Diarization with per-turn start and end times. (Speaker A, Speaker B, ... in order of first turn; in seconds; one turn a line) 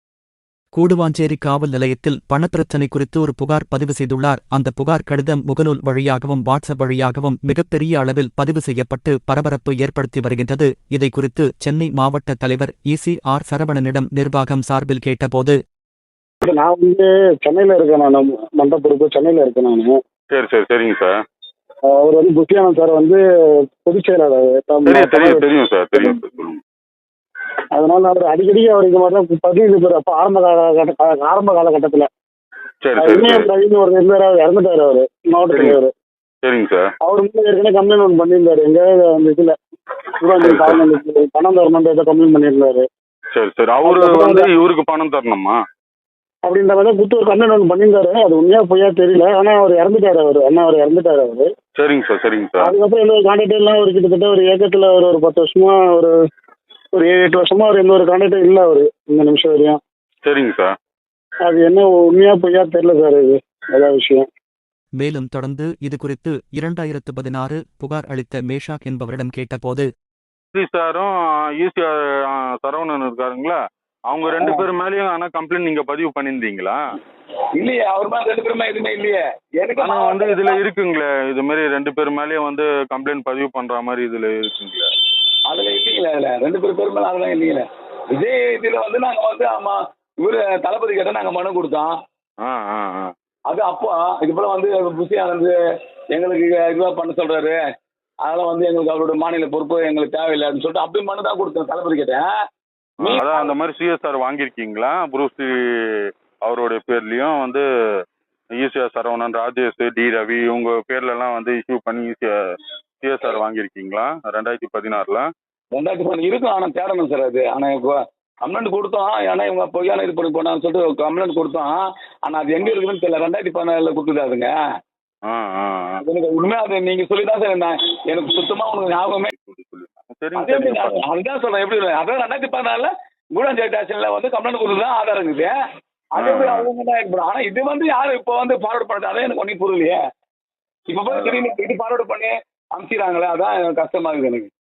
Speaker A: 0.7-15.6
Speaker B: 16.4-19.9
Speaker C: 20.3-21.2
Speaker B: 21.9-23.2
Speaker B: 23.8-26.2
Speaker C: 24.9-26.6
Speaker B: 27.7-32.1
Speaker C: 32.8-33.5
Speaker B: 33.0-35.9
Speaker C: 35.5-35.8
Speaker C: 36.4-36.9
Speaker B: 37.0-39.5
Speaker B: 40.2-42.8
Speaker C: 40.4-40.8
Speaker C: 43.3-45.6
Speaker B: 43.8-44.5
Speaker B: 46.5-51.5
Speaker C: 51.8-52.7
Speaker B: 52.6-56.1
Speaker B: 56.9-59.8
Speaker C: 60.2-60.8
Speaker B: 61.5-64.2
Speaker A: 65.0-69.9
Speaker C: 70.5-76.8
Speaker D: 74.2-74.6
Speaker D: 77.6-80.6
Speaker C: 79.8-84.9
Speaker D: 85.5-91.9
Speaker C: 92.4-93.1
Speaker D: 93.5-95.5
Speaker D: 96.1-97.6
Speaker D: 98.2-102.3
Speaker D: 103.0-103.5
Speaker C: 103.0-107.7
Speaker C: 108.5-112.4
Speaker C: 113.0-115.3
Speaker D: 115.7-124.5
Speaker C: 125.2-126.0
Speaker D: 126.0-129.3
Speaker C: 129.3-131.0
Speaker D: 130.3-135.5
Speaker D: 136.2-140.0
Speaker C: 136.2-136.7
Speaker D: 140.9-144.5
Speaker C: 141.1-141.4